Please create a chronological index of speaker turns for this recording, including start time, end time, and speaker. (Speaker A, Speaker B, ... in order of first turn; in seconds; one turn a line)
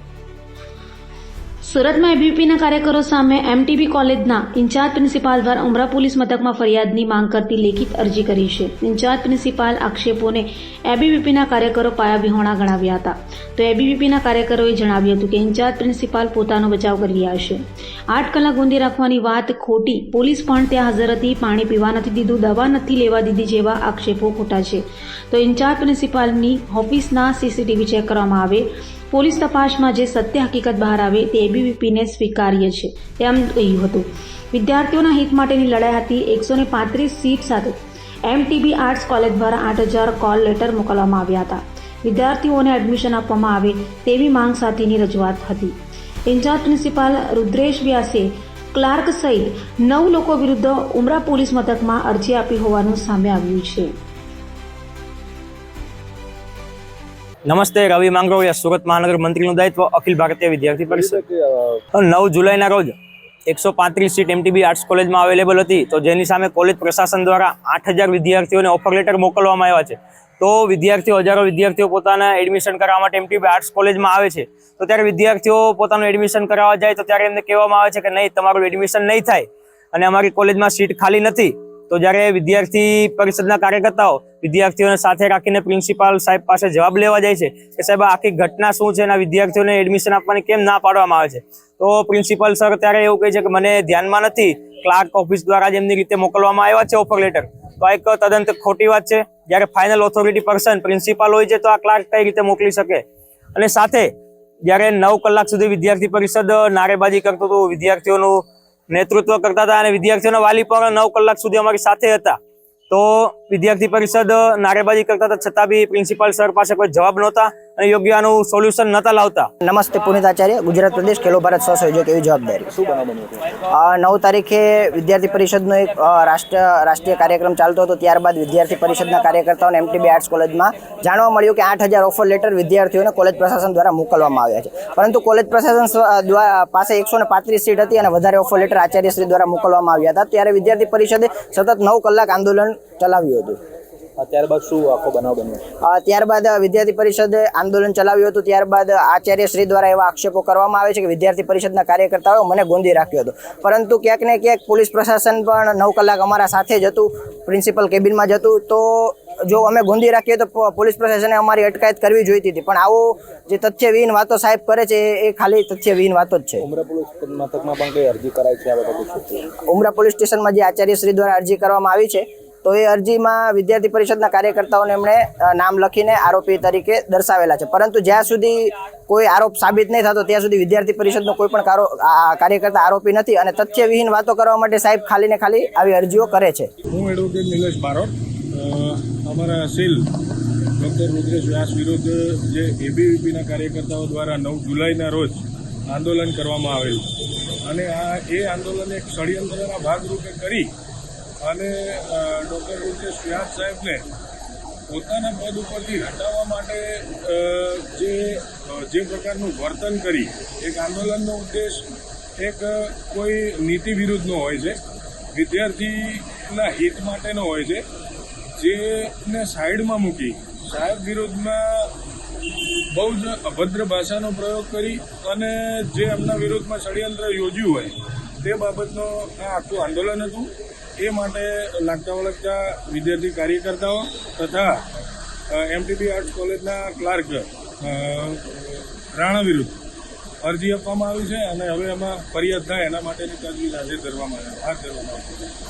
Speaker A: 1.6-37.8
Speaker A: 38.3-45.8
Speaker A: 46.3-53.9
Speaker B: 57.5-61.2
Speaker C: 60.9-61.8
Speaker B: 62.0-62.9
Speaker B: 63.5-103.0
Speaker B: 103.5-104.1
Speaker B: 104.7-112.4
Speaker B: 112.9-119.5
Speaker D: 119.6-122.7
Speaker C: 122.7-123.4
Speaker D: 123.7-143.6
Speaker C: 144.2-145.6
Speaker D: 145.8-166.6
Speaker C: 166.6-169.5
Speaker D: 169.6-186.7
Speaker E: 186.9-188.1
Speaker E: 188.7-190.1
Speaker E: 190.8-197.1
Speaker E: 197.7-200.7
Speaker E: 201.5-204.0
Speaker E: 204.9-211.8
Speaker E: 212.4-214.8
Speaker E: 215.3-217.8
Speaker E: 218.6-221.8
Speaker E: 222.9-227.9
Speaker E: 228.5-230.5
Speaker E: 231.0-234.7
Speaker E: 235.6-238.3
Speaker E: 239.2-239.8
Speaker E: 240.4-245.2